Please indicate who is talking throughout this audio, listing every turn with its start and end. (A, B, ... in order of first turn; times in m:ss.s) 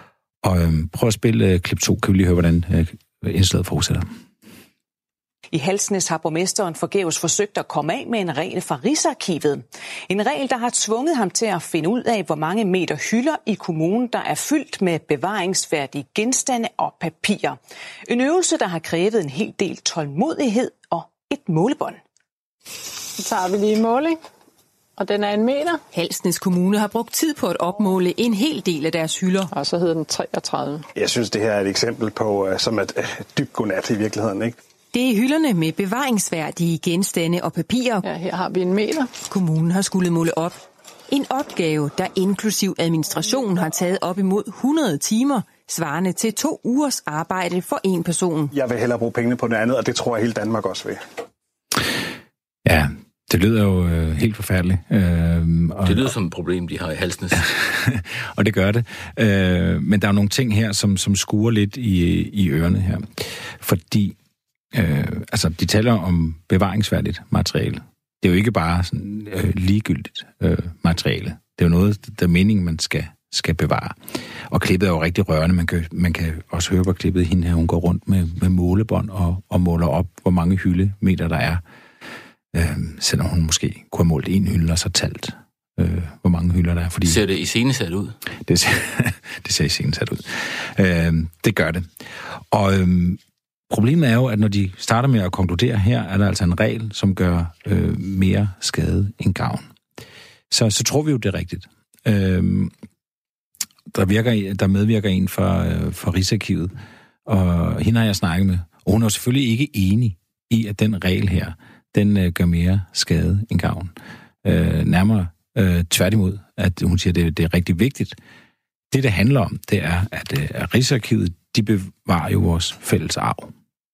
0:00.4-0:04.0 A
0:05.5-0:22.0 B
0:23.2-0:24.2 C
0:25.0-0:25.8 C
0:25.9-0:29.5 D
0:29.5-0:30.8 C
0:30.9-0:34.6 E
0:34.9-0:38.0 D
0:38.0-0:39.1 C
0:39.3-0:48.5 D
0:48.5-0:51.0 E
0:52.6-0:56.1 A
0:55.8-0:57.4 F
0:57.4-1:04.1 A
1:04.7-1:21.6 A
1:22.5-1:27.2 A
1:27.0-1:28.2 F
1:28.4-1:31.9 A
1:32.5-1:39.7 A
1:40.5-1:42.7 A
1:43.9-1:46.7 A
1:47.2-1:58.2 A
1:58.9-2:03.5 A